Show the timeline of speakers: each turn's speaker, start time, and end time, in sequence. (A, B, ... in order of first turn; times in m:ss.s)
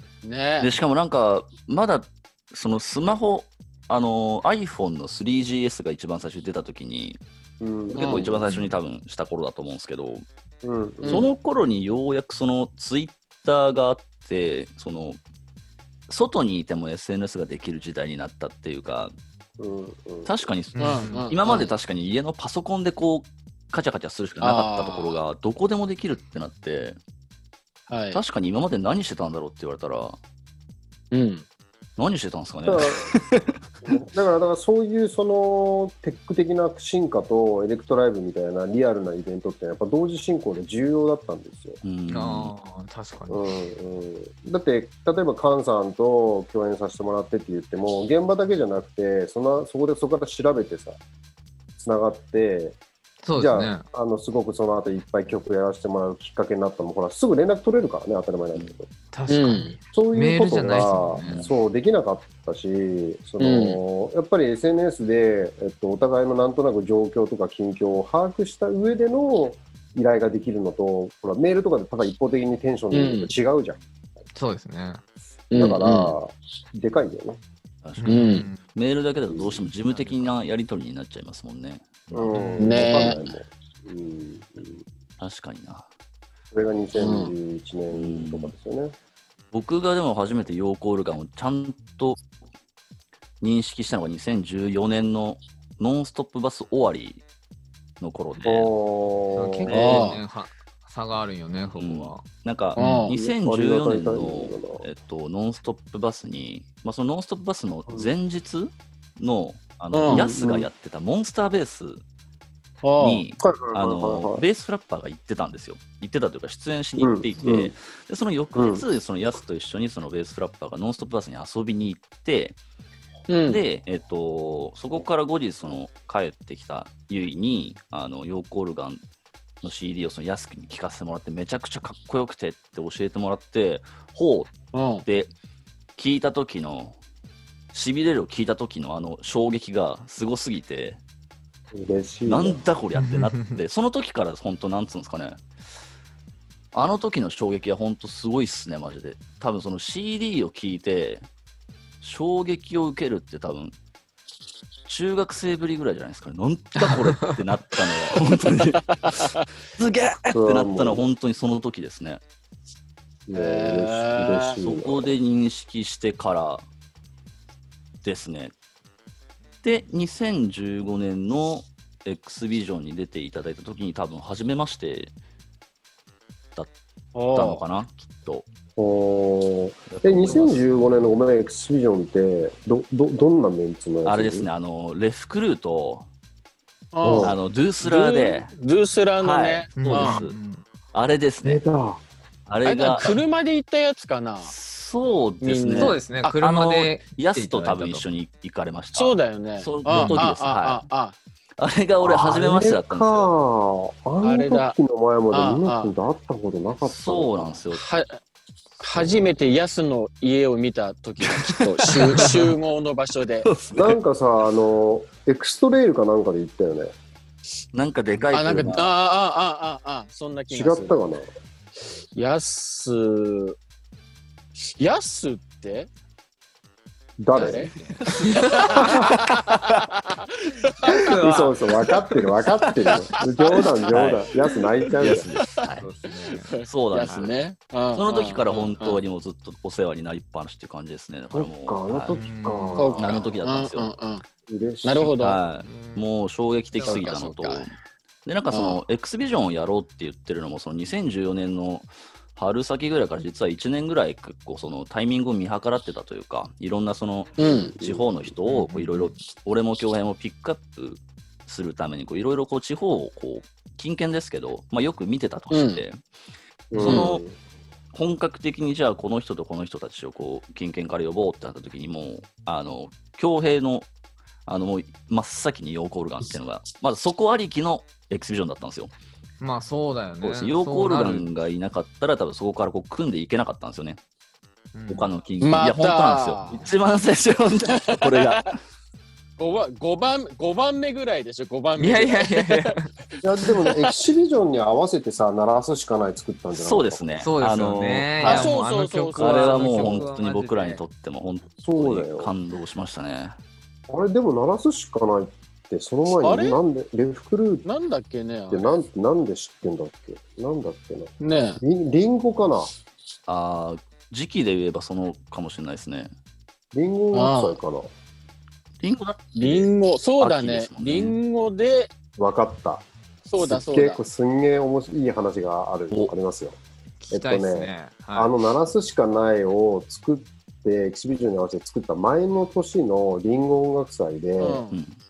0:00.2-0:00.7 A
0:00.6-0:07.2 B
0:07.6-0:08.4 C
0:07.9-0:10.2 B
0:07.9-0:08.3 A
0:08.5-0:08.8 D
0:10.6-0:11.3 C
0:11.0-0:11.3 A
0:11.0-0:15.2 B
0:16.1-0:19.1 B
0:19.6-0:20.4 C
0:20.2-0:27.0 B
0:20.7-0:21.3 D
0:20.8-0:21.7 A
0:24.4-0:25.2 A
0:27.9-0:28.2 A
0:28.1-0:30.2 B
0:31.1-0:31.4 A
0:32.0-0:33.6 B
0:32.6-0:33.2 C
0:33.8-0:41.8 C
0:41.8-0:42.5 B
0:42.1-0:43.5 D
0:43.3-0:51.0 C
0:51.8-0:52.8 C
0:53.2-0:53.8 D
0:53.4-0:58.9 C
0:59.1-1:01.4 D
0:59.3-0:59.8 A
0:59.9-1:13.8 C
1:01.2-1:01.5 B
1:03.4-1:03.8 A
1:12.9-1:13.3 A
1:14.3-1:15.0 D
1:15.5-1:16.1 A
1:15.5-1:17.4 C
1:17.8-1:22.4 B
1:18.0-1:18.6 D
1:18.1-1:18.5 A
1:19.3-1:19.6 C
1:19.9-1:20.3 D
1:22.1-1:24.8 C
1:22.3-1:22.9 D
1:22.6-1:23.2 A
1:25.2-1:25.9 B
1:26.5-1:28.9 C
1:27.0-1:27.3 A
1:27.9-1:28.5 B
1:29.5-1:32.2 B
1:33.4-1:37.2 B
1:38.0-1:38.7 B
1:38.4-1:40.0 C
1:39.3-1:42.2 D
1:39.7-1:40.2 A
1:39.7-1:40.0 B
1:41.8-1:52.0 B
1:42.8-1:43.1 A
1:43.1-1:44.8 C
1:49.9-1:50.3 A
1:50.1-1:50.7 C
1:52.8-1:53.2 A
1:53.0-2:02.6 B
1:53.4-1:54.4 C
1:57.0-1:57.7 C
1:58.5-1:58.8 C
2:03.3-2:03.6 A
2:03.5-2:09.0 B
2:09.6-2:15.3 B
2:14.7-2:15.0 A
2:16.0-2:17.0 B
2:17.7-2:21.0 B
2:21.7-2:22.6 C
2:22.3-2:25.4 B
2:23.0-2:23.6 D
2:26.7-2:31.2 B
2:32.0-2:33.7 B
2:34.8-2:42.2 B
2:36.8-2:37.4 D
2:39.0-2:39.3 A
2:40.3-2:41.1 C
2:43.3-2:45.1 C
2:43.3-2:44.6 A
2:44.6-2:46.6 B
2:48.0-2:48.5 B
2:49.6-2:55.1 B
2:57.1-2:57.6 A
2:57.3-2:58.4 B
2:58.8-3:04.5 C
2:59.9-3:00.9 B
3:04.0-3:06.1 B
3:06.9-3:10.2 A
3:07.0-3:07.4 C
3:07.1-3:08.5 B
3:09.2-3:10.4 B
3:09.8-3:10.6 D
3:10.9-3:11.6 B
3:11.4-3:12.0 C
3:12.4-3:13.2 B
3:12.6-3:14.5 A
3:14.4-3:20.8 B
3:15.4-3:16.3 A
3:15.7-3:18.0 D
3:18.9-3:21.2 A
3:19.8-3:20.2 D
3:21.6-3:23.3 B
3:22.0-3:27.6 C
3:24.2-3:24.8 A
3:25.3-3:25.9 A
3:26.8-3:27.8 B
3:27.7-3:28.2 A
3:28.8-3:33.5 A
3:31.2-3:32.5 B
3:33.4-3:34.0 B
3:33.7-3:36.9 C
3:37.7-3:38.9 B
3:38.3-3:41.0 A
3:40.5-3:41.3 C
3:42.1-3:43.6 A
3:44.6-3:45.9 A
3:47.2-3:47.7 C
3:47.3-3:51.2 A
3:47.8-3:48.9 D
3:48.8-3:49.1 C
3:50.8-3:51.6 D
3:51.1-3:55.3 C
3:52.8-3:53.9 A
3:53.9-3:54.3 B
3:54.9-3:55.9 B
3:55.1-3:55.6 A
3:55.8-3:56.5 D
3:56.4-3:59.0 A
3:56.6-3:57.4 B
3:57.9-4:02.2 B
4:01.3-4:03.2 C
4:02.1-4:03.0 D
4:02.8-4:04.2 A
4:03.0-4:03.9 B
4:04.5-4:05.1 C
4:04.8-4:05.4 A
4:05.2-4:07.7 B
4:05.6-4:06.0 D
4:06.7-4:07.0 D
4:06.8-4:07.7 A
4:08.2-4:26.0 B
4:08.5-4:08.8 A
4:17.4-4:17.7 A
4:17.4-4:18.3 C
4:18.4-4:19.2 D
4:25.5-4:25.8 A
4:26.7-4:27.3 C
4:26.7-4:27.2 B
4:26.8-4:27.1 A
4:27.9-4:33.9 B
4:34.4-4:38.9 B
4:39.4-4:41.3 D
4:40.2-4:44.0 B
4:44.7-4:45.1 D
4:44.9-4:48.6 B
4:45.4-4:46.6 A
4:47.7-4:48.4 A
4:49.4-4:52.8 A
4:51.8-4:52.8 D
4:53.2-4:57.0 C
4:53.4-4:53.9 A
4:56.5-4:58.6 B
4:57.2-5:00.8 D
4:58.2-5:00.0 A
4:59.2-5:03.4 B
5:01.6-5:02.3 C
5:03.9-5:07.6 C
5:06.2-5:06.6 A
5:07.6-5:08.8 A
5:08.5-5:12.7 C
5:11.2-5:11.6 A
5:13.3-5:16.1 B
5:16.7-5:17.9 C
5:17.1-5:17.6 A
5:18.8-5:21.2 B
5:19.4-5:21.9 A
5:22.2-5:22.8 C
5:23.2-5:24.0 A
5:23.4-5:26.6 C
5:27.0-5:28.3 D
5:27.1-5:34.6 C
5:34.4-5:34.8 A
5:34.7-5:35.0 B